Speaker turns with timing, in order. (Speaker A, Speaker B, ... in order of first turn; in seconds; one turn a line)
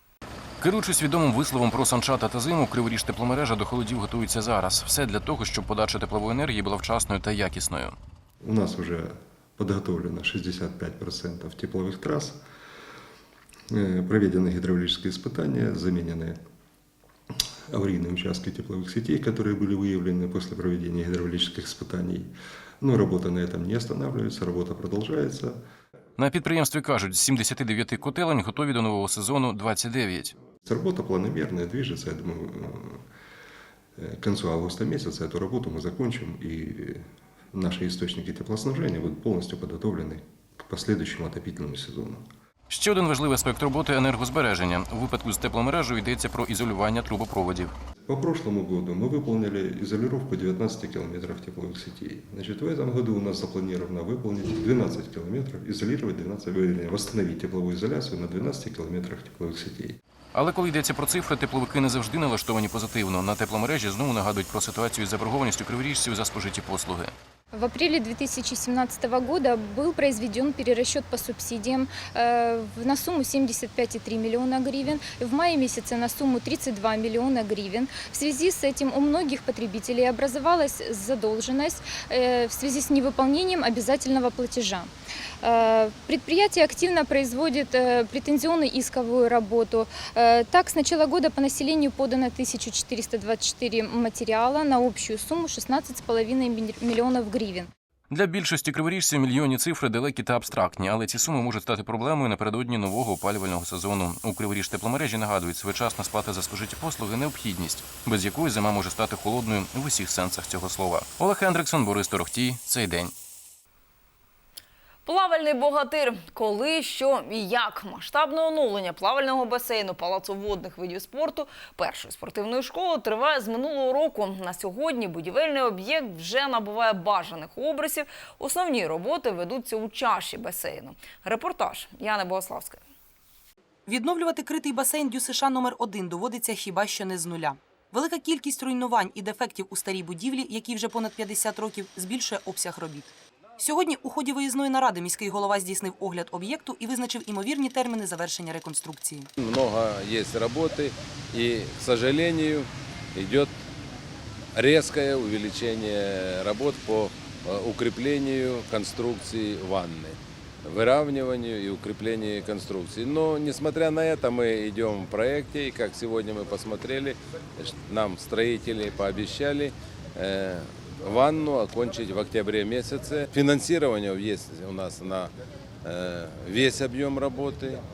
Speaker A: 0.6-8.0
Speaker B: 8.4-12.4
Speaker B: 13.7-16.4
Speaker B: 17.7-25.6
Speaker A: 26.2-30.3
Speaker B: 30.6-33.0
Speaker B: 34.0-42.3
Speaker A: 42.7-47.7
Speaker B: 48.1-60.0
Speaker A: 60.3-67.1
Speaker C: 67.5-84.9
Speaker C: 85.4-97.7
Speaker A: 98.1-113.1
Speaker D: 115.1-132.8
Speaker E: 133.9-149.3
Speaker F: 149.4-153.5
Speaker F: 154.6-175.3
Speaker F: 175.8-177.8